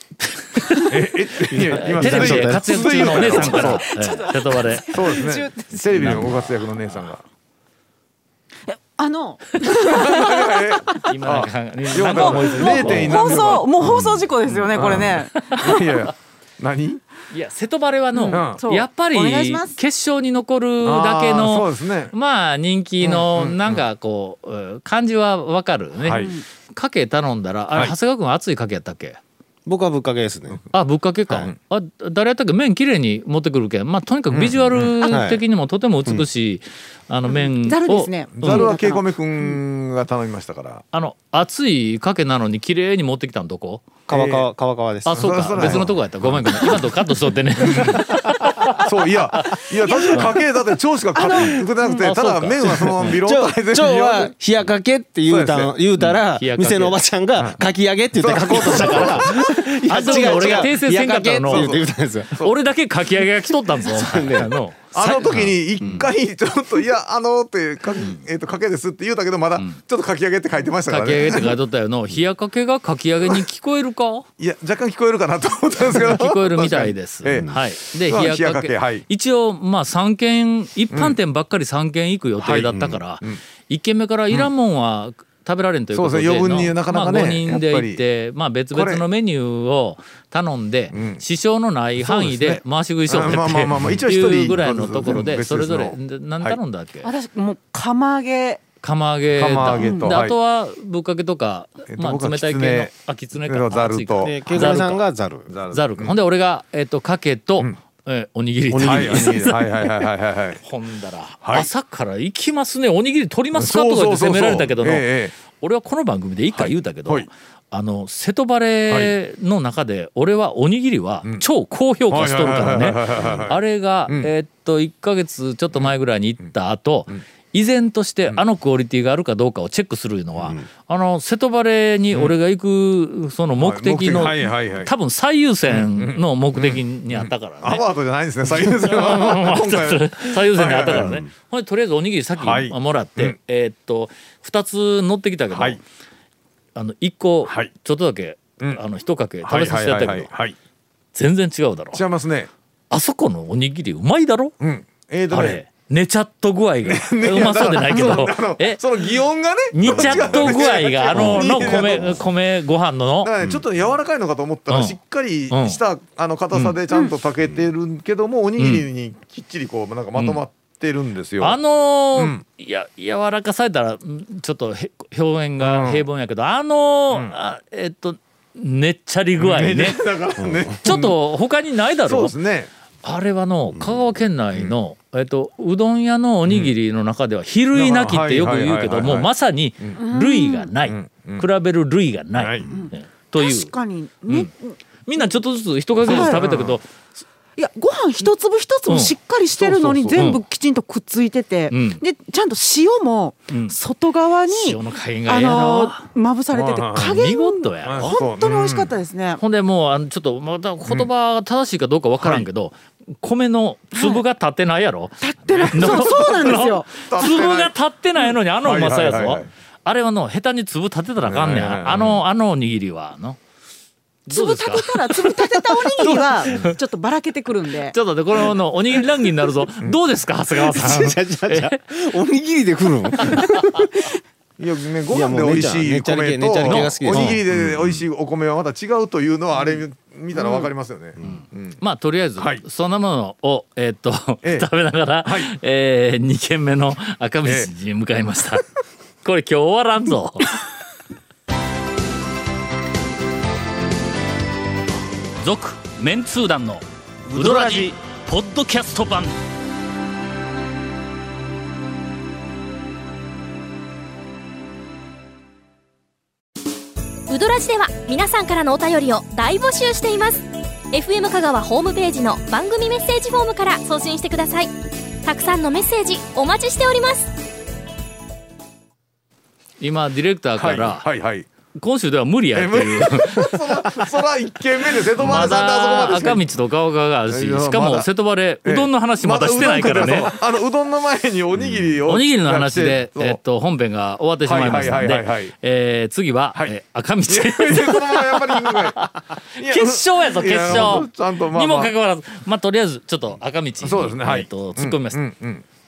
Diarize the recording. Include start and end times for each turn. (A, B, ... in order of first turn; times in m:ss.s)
0:00.2-0:00.9 A
0:00.8-0:03.9 B
0:01.5-0:03.7 C
0:01.7-0:05.0 A
0:03.4-0:06.2 D
0:04.8-0:07.2 B
0:05.9-0:07.1 A
0:08.7-0:11.0 D
0:09.8-0:14.0 B
0:11.0-0:13.6 A
0:11.9-0:16.1 D
0:14.4-0:15.8 A
0:14.8-0:17.0 B
0:17.3-0:29.2 A
0:18.1-0:19.8 D
0:18.3-0:18.6 B
0:20.8-0:22.1 B
0:23.0-0:23.8 B
0:26.0-0:26.3 B
0:26.1-0:26.4 D
0:29.6-0:30.6 C
0:30.7-0:38.7 A
0:34.3-0:35.2 B
0:35.0-0:35.4 C
0:37.5-0:39.6 D
0:38.4-0:40.8 B
0:40.9-0:43.9 A
0:44.1-0:46.8 C
0:44.1-0:44.5 B
0:45.0-0:48.9 A
0:45.1-0:46.7 B
0:47.6-0:48.1 B
0:48.8-0:54.3 B
0:49.8-0:50.5 D
0:51.1-0:52.0 D
0:52.0-0:53.2 A
0:53.1-1:02.3 C
0:55.2-0:55.7 B
0:56.0-0:57.0 A
0:57.4-1:00.7 B
0:58.4-1:01.7 A
1:01.5-1:02.5 B
1:02.4-1:05.8 A
1:03.7-1:04.5 C
1:04.9-1:11.6 B
1:05.2-1:06.1 C
1:10.9-1:14.2 A
1:14.4-1:19.0 B
1:15.8-1:37.1 A
1:20.9-1:21.2 B
1:22.4-1:23.4 B
1:25.9-1:28.0 B
1:28.7-1:29.0 B
1:30.9-1:31.2 B
1:32.0-1:36.6 B
1:37.0-1:38.6 D
1:38.8-1:45.0 A
1:39.3-1:40.4 B
1:39.8-1:40.2 D
1:41.9-1:44.8 B
1:44.2-1:45.5 C
1:45.5-1:46.2 B
1:45.7-1:50.0 A
1:48.7-1:49.4 C
1:48.8-1:50.6 B
1:50.6-2:17.8 A
1:53.5-1:55.3 B
1:56.5-1:57.3 B
1:58.9-1:59.1 B
2:02.1-2:04.3 B
2:05.7-2:06.5 B
2:13.6-2:14.9 B
2:15.6-2:21.2 B
2:18.5-2:25.8 A
2:22.4-2:23.4 B
2:25.5-2:25.8 B
2:26.7-2:30.3 A
2:27.4-2:27.7 B
2:29.4-2:30.5 B
2:31.1-2:32.0 A
2:31.9-2:32.5 B
2:32.9-2:34.5 A
2:34.6-2:35.6 B
2:35.3-2:39.1 A
2:36.8-2:42.3 B
2:39.7-2:43.3 A
2:39.9-2:41.5 C
2:43.2-2:51.6 B
2:44.7-2:45.0 A
2:45.5-2:45.8 A
2:48.6-2:48.8 A
2:50.1-2:50.4 A
2:51.4-3:00.0 A
2:52.2-2:52.4 B
2:55.6-2:56.0 B
2:59.4-3:01.2 B
3:00.4-3:00.8 C
3:00.8-3:02.4 A
3:02.0-3:02.7 B
3:03.0-3:13.7 A
3:03.8-3:04.7 B
3:06.4-3:06.7 B
3:07.7-3:10.0 B
3:10.0-3:10.7 D
3:10.8-3:11.5 B
3:12.3-3:12.8 B
3:12.7-3:15.3 D
3:15.0-3:16.9 A
3:16.0-3:16.8 B
3:16.0-3:16.4 D
3:17.6-3:29.4 D
3:18.8-3:20.4 A
3:19.8-3:20.2 B
3:21.7-3:22.0 A
3:23.5-3:23.8 A
3:24.5-3:26.1 A
3:26.5-3:27.1 B
3:27.0-3:28.2 A
3:27.8-3:28.9 B
3:29.4-3:43.4 A
3:32.2-3:32.5 B
3:33.9-3:34.2 D
3:35.2-3:37.5 D
3:35.5-3:37.7 B
3:38.6-3:39.5 B
3:41.2-3:42.2 B
3:44.3-3:48.0 D
3:44.3-3:46.7 A
3:47.9-3:51.8 A
3:50.5-3:54.0 C
3:54.6-4:01.8 B
3:55.1-3:57.4 C
3:56.6-3:57.4 A
4:01.2-4:08.6 A
4:02.4-4:02.6 B
4:05.2-4:05.5 B
4:07.4-4:07.7 B
4:09.2-4:10.6 A
4:15.4-4:19.3 A
4:17.3-4:17.8 C
4:27.3-4:34.7 E
4:35.2-4:37.3 E
4:39.8-4:41.0 A
4:40.6-4:41.5 B
4:41.8-4:44.1 A
4:42.5-4:46.4 B
4:45.2-4:50.4 A
4:47.3-4:48.1 B
4:48.6-4:53.4 B
4:52.0-5:05.2 A
4:54.4-4:55.5 B
4:57.3-5:01.9 B
5:03.8-5:05.6 B